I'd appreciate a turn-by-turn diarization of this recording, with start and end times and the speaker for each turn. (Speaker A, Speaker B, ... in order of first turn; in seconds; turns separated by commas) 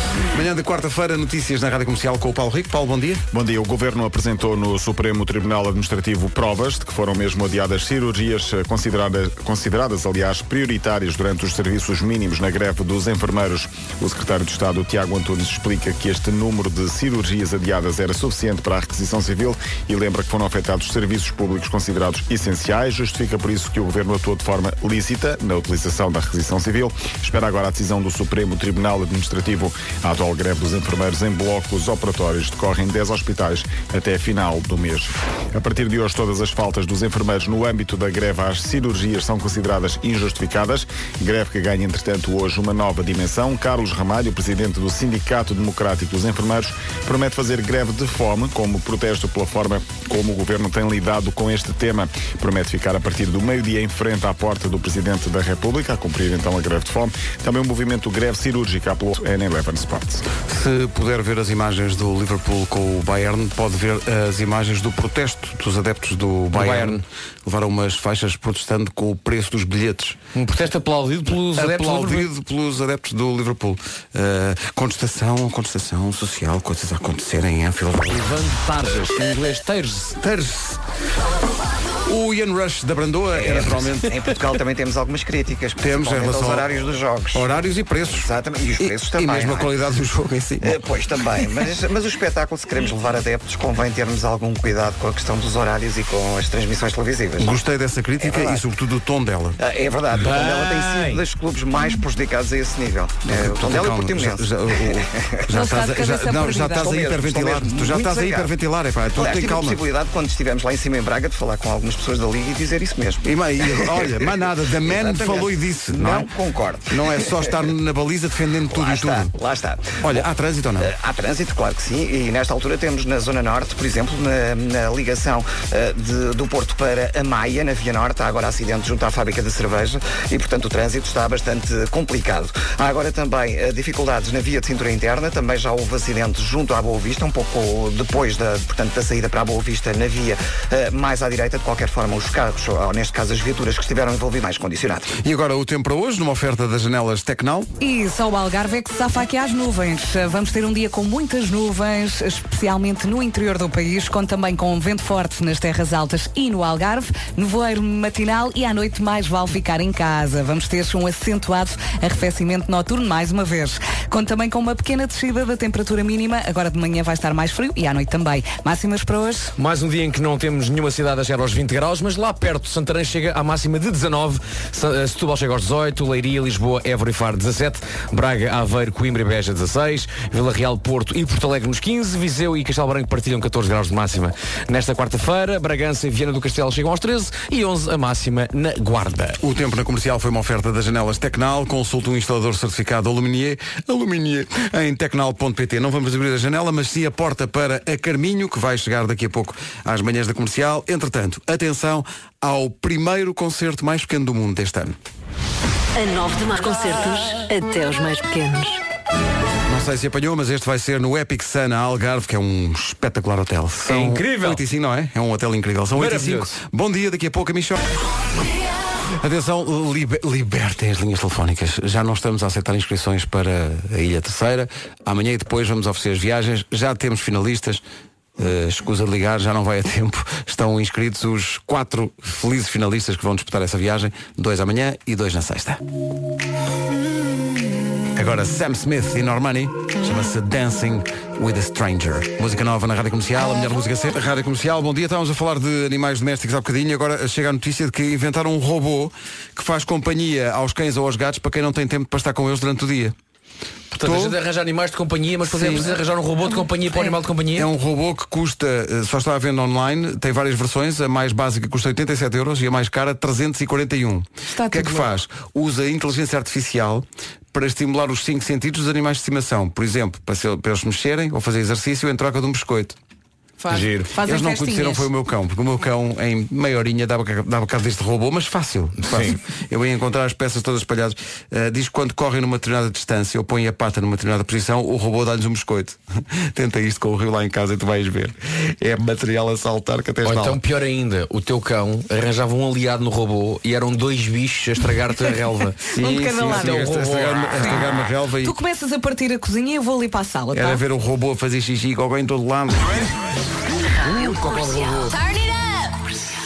Speaker A: 0.2-3.2, Speaker B: 3.3-60.3, Speaker A: 60.4-70.2, Speaker C: 66.5-67.0, Speaker C: 70.3-72.3, Speaker A: 71.5-78.3, Speaker C: 78.1-80.2, Speaker A: 80.1-80.8, Speaker A: 82.0-84.2, Speaker D: 83.3-87.5, Speaker A: 85.8-86.7, Speaker A: 87.3-90.8, Speaker D: 88.1-89.7, Speaker D: 90.6-97.6, Speaker A: 97.4-99.6, Speaker D: 98.2-98.6, Speaker D: 99.6-105.4, Speaker C: 100.1-101.2, Speaker A: 103.2-109.8, Speaker E: 105.5-107.0, Speaker D: 106.8-108.5, Speaker D: 109.1-114.1, Speaker A: 113.2-116.3, Speaker D: 114.8-117.6, Speaker A: 116.9-119.3, Speaker D: 118.7-120.2, Speaker A: 120.0-120.9, Speaker D: 120.8-145.1, Speaker A: 145.2-147.7, Speaker E: 147.8-169.6, Speaker C: 169.6-189.4, Speaker A: 189.4-204.9, Speaker F: 205.9-208.8, Speaker A: 209.7-217.9, Speaker C: 213.9-214.6, Speaker C: 215.9-216.6, Speaker A: 219.2-227.8, Speaker A: 228.4-235.8, Speaker A: 238.1-253.1, Speaker C: 253.9-257.7, Speaker A: 254.0-254.4, Speaker A: 255.4-255.9, Speaker A: 257.5-273.0, Speaker E: 264.5-265.1, Speaker E: 273.6-275.1, Speaker C: 273.7-274.1, Speaker A: 274.2-290.6, Speaker C: 279.0-279.4, Speaker C: 290.2-295.9, Speaker E: 295.9-297.0, Speaker A: 295.9-298.6, Speaker C: 296.5-297.7, Speaker E: 297.6-297.9, Speaker E: 298.4-300.8, Speaker A: 300.5-303.1, Speaker C: 304.0-305.2